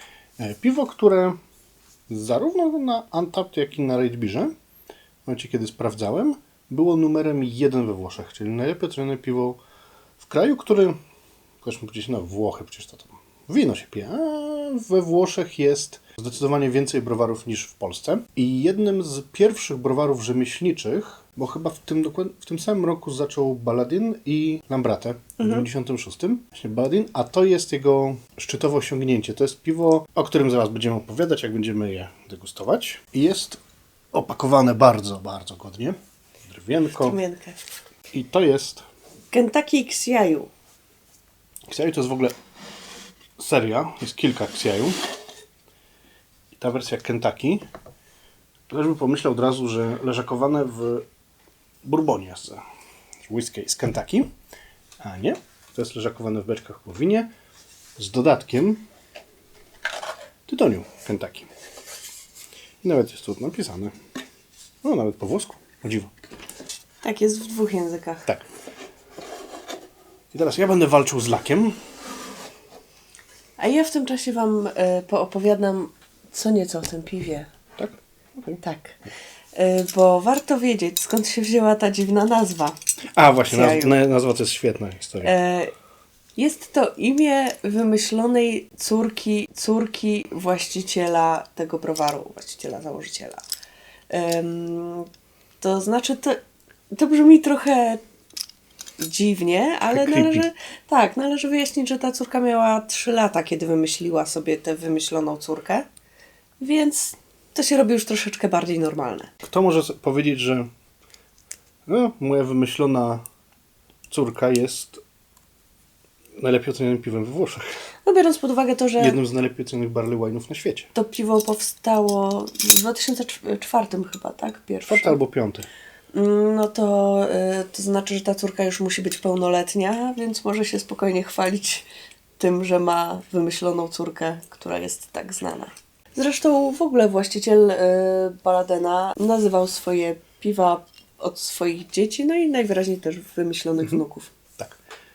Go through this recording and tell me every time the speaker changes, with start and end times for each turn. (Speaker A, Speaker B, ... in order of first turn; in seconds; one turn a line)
Speaker A: 0.4-1.4
Speaker A: 2.1-4.5
Speaker A: 5.2-9.6
Speaker A: 10.2-11.0
Speaker A: 11.6-33.6
Speaker A: 34.1-37.2
Speaker B: 37.0-37.6
Speaker A: 38.1-38.9
Speaker B: 39.3-40.5
Speaker A: 41.7-42.4
Speaker A: 43.4-45.0
Speaker A: 46.6-47.6
Speaker A: 48.7-51.0
Speaker A: 51.8-52.6
Speaker A: 53.3-54.3
Speaker A: 55.0-57.3
Speaker A: 58.0-58.8
Speaker A: 60.5-61.5
Speaker A: 62.8-63.9
Speaker A: 64.8-66.1
Speaker B: 67.0-68.3
Speaker A: 70.3-71.8
Speaker B: 73.6-77.5
Speaker A: 77.8-78.6
Speaker B: 78.6-79.0
Speaker B: 79.5-82.8
Speaker A: 83.2-85.3
Speaker B: 83.5-84.0
Speaker B: 85.2-85.7
Speaker B: 86.4-93.4
Speaker B: 94.1-95.1
Speaker B: 95.6-96.4
Speaker B: 96.9-98.0
Speaker B: 99.0-105.8
Speaker A: 99.9-100.5
Speaker B: 106.6-109.3
Speaker A: 109.4-110.7
Speaker A: 111.9-113.2
Speaker A: 114.1-115.0
Speaker A: 116.4-117.7
Speaker B: 118.0-119.2
Speaker A: 119.0-120.9
Speaker B: 120.9-125.2
Speaker A: 124.8-125.7
Speaker B: 126.1-131.9
Speaker B: 132.4-144.3